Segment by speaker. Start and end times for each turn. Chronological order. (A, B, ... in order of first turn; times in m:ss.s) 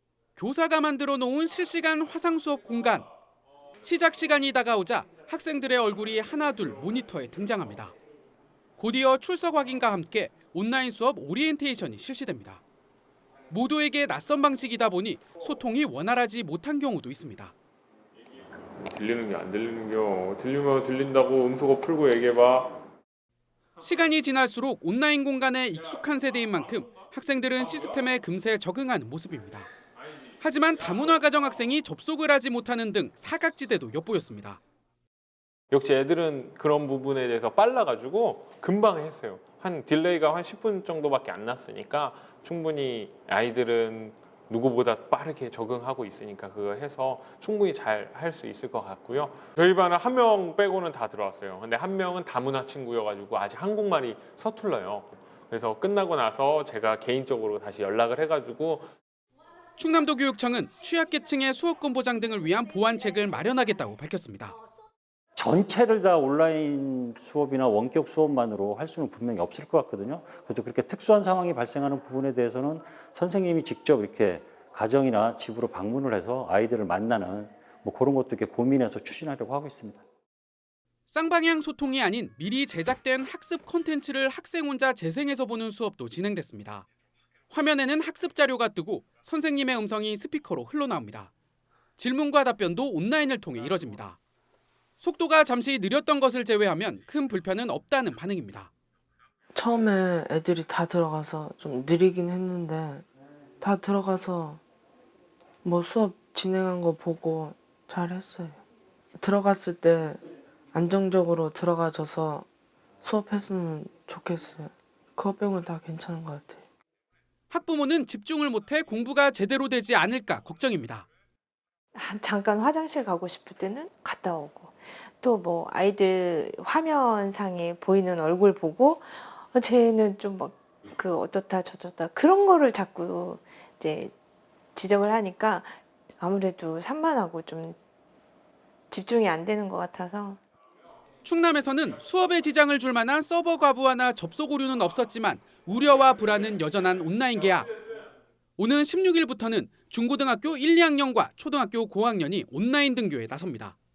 0:00.4-0:03.1 A
0:03.8-0:07.9 A
0:08.8-0:12.6 A
0:13.5-0:17.5 A
0:18.8-0:22.8 B
0:23.8-0:29.7 A
0:30.4-0:34.6 A
0:35.7-0:58.9 B
0:59.8-1:04.6 A
1:05.4-1:20.0 C
1:21.1-1:26.8 A
1:27.5-1:31.3 A
1:32.0-1:34.2 A
1:35.0-1:38.7 A
1:39.5-1:43.0 D
1:43.6-1:44.6 D
1:45.6-1:48.6 D
1:49.2-1:50.2 D
1:50.7-1:52.4 D
1:53.0-1:56.6 D
1:57.5-2:01.0 A
2:01.9-2:14.1 E
2:14.7-2:17.8 E
2:18.9-2:20.4 E
2:21.2-2:27.7 A
2:28.6-2:33.8 A